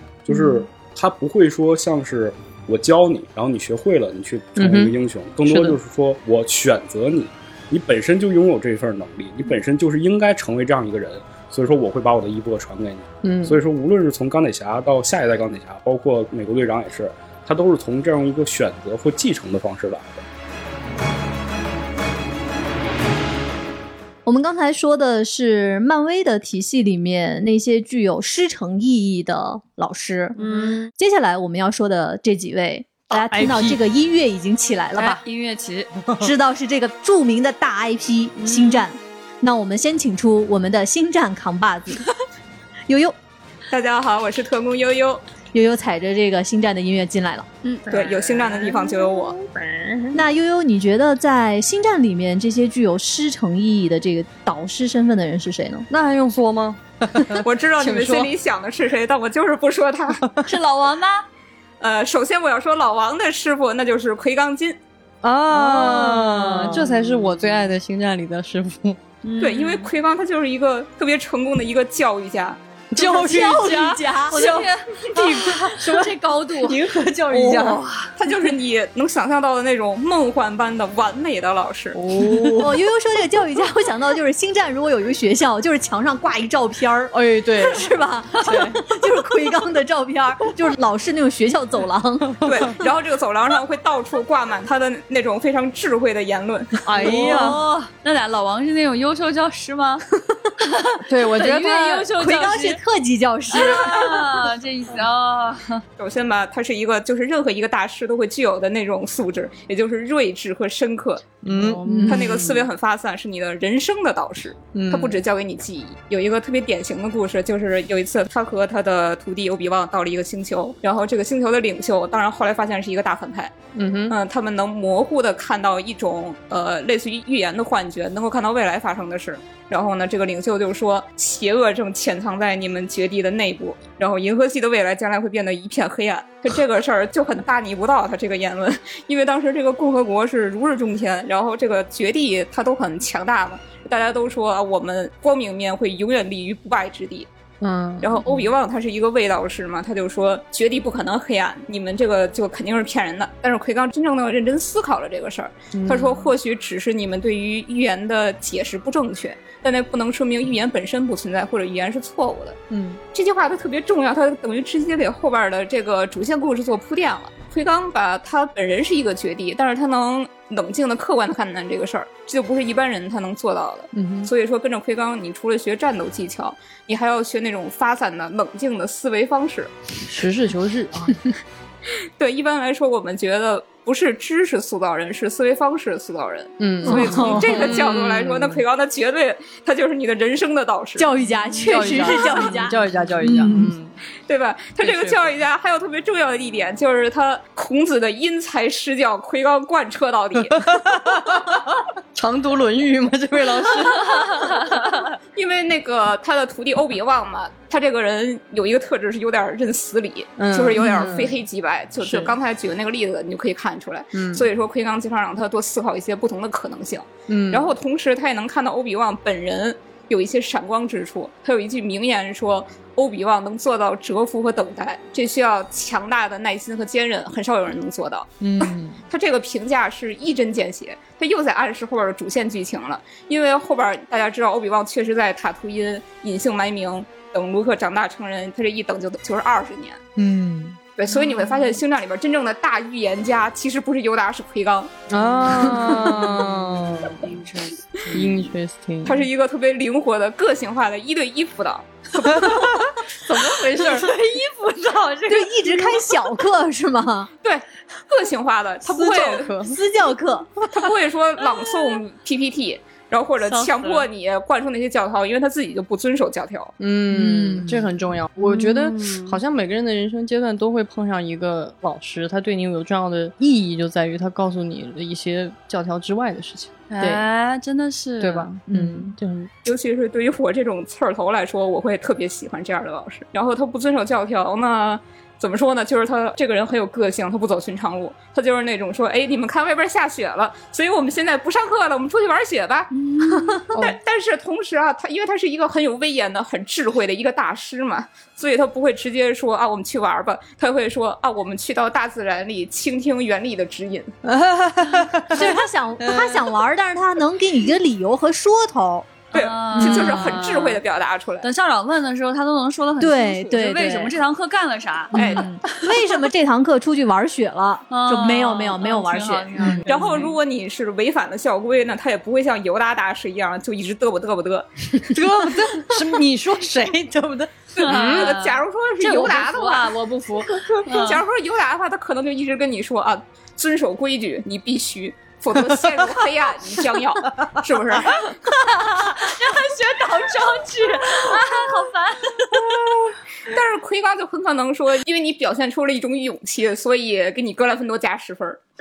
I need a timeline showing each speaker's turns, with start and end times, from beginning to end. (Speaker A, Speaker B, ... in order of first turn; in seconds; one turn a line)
Speaker A: 0.2-20.2
Speaker B: 0.3-0.7
Speaker B: 4.6-4.9
Speaker B: 5.5-5.8
Speaker B: 13.2-13.6
Speaker C: 24.2-30.4
Speaker D: 30.4-30.9
Speaker B: 30.4-30.8
Speaker C: 30.9-35.2
Speaker B: 33.1-33.8
Speaker D: 35.0-35.9
Speaker C: 36.2-42.1
Speaker D: 38.4-38.9
Speaker C: 42.9-43.1
Speaker E: 43.7-45.2
Speaker C: 45.5-47.5
Speaker E: 47.9-49.4
Speaker B: 47.9-50.2
Speaker C: 50.1-55.9
Speaker B: 55.9-58.3
Speaker E: 57.4-60.2
Speaker D: 60.5-61.2
Speaker E: 61.8-64.8
Speaker B: 65.2-69.0
Speaker D: 65.5-67.7
Speaker D: 69.2-69.9
Speaker E: 69.4-72.6
Speaker B: 72.9-77.8
Speaker C: 73.0-74.6
Speaker D: 74.3-78.1
Speaker E: 78.2-82.0
Speaker B: 81.9-82.8
Speaker C: 82.5-92.7
Speaker B: 87.1-87.9
Speaker B: 88.4-88.8
Speaker B: 92.4-92.7
Speaker E: 92.5-96.8
Speaker B: 96.8-97.6
Speaker D: 97.0-100.0
Speaker D: 100.6-102.8
Speaker B: 101.0-101.7
Speaker C: 101.4-104.3
Speaker D: 103.5-105.8
Speaker E: 106.0-111.3
Speaker B: 111.4-112.5
Speaker D: 111.5-112.6
Speaker C: 111.9-112.4
Speaker E: 112.1-123.5
Speaker B: 114.7-115.2
Speaker B: 123.8-124.2
Speaker E: 124.1-147.3
Speaker B: 147.6-148.5
Speaker E: 148.0-162.6
Speaker B: 155.7-156.3
Speaker B: 162.7-163.0
Speaker E: 163.1-179.7
Speaker B: 173.9-174.3
Speaker B: 180.1-181.3
Speaker E: 182.2-191.1
Speaker B: 186.6-188.6
Speaker C: 186.8-187.7
Speaker C: 191.0-193.7
Speaker B: 191.7-193.9
Speaker E: 194.3-200.6
Speaker B: 194.8-195.3
Speaker B: 200.4-204.7
Speaker D: 204.5-204.8
Speaker E: 205.3-240.0
Speaker B: 210.4-211.4
Speaker B: 212.0-212.3
Speaker B: 214.1-214.5
Speaker B: 217.3-217.7
Speaker B: 228.4-229.0
Speaker B: 240.2-240.8
Speaker E: 240.9-244.9
Speaker B: 245.1-247.2
Speaker D: 245.3-246.5
Speaker D: 247.2-248.5
Speaker B: 248.1-249.3
Speaker E: 249.1-252.5
Speaker B: 252.2-254.1
Speaker D: 253.5-256.1
Speaker C: 255.3-257.3
Speaker E: 257.4-259.6
Speaker B: 258.9-259.8
Speaker C: 259.6-260.5
Speaker E: 260.7-266.7
Speaker D: 263.4-264.1
Speaker B: 266.8-276.7
Speaker C: 267.1-267.9
Speaker D: 268.4-269.4
Speaker D: 276.9-278.5
Speaker B: 278.2-279.5
Speaker C: 278.7-279.1
Speaker E: 279.6-292.9
Speaker D: 292.9-293.6
Speaker E: 293.6-304.1
Speaker B: 304.2-306.5
Speaker C: 305.3-309.2
Speaker E: 309.3-311.5
Speaker D: 309.3-310.8
Speaker D: 311.4-315.4
Speaker C: 313.0-314.2
Speaker C: 315.1-319.8
Speaker E: 315.1-315.5
Speaker B: 315.2-315.4
Speaker D: 317.9-320.4
Speaker B: 319.6-319.9
Speaker E: 319.9-325.0
Speaker B: 325.1-328.3
Speaker D: 327.8-331.2
Speaker E: 327.8-329.9
Speaker E: 330.9-338.2
Speaker B: 335.5-336.1
Speaker D: 338.6-342.8
Speaker E: 343.5-348.6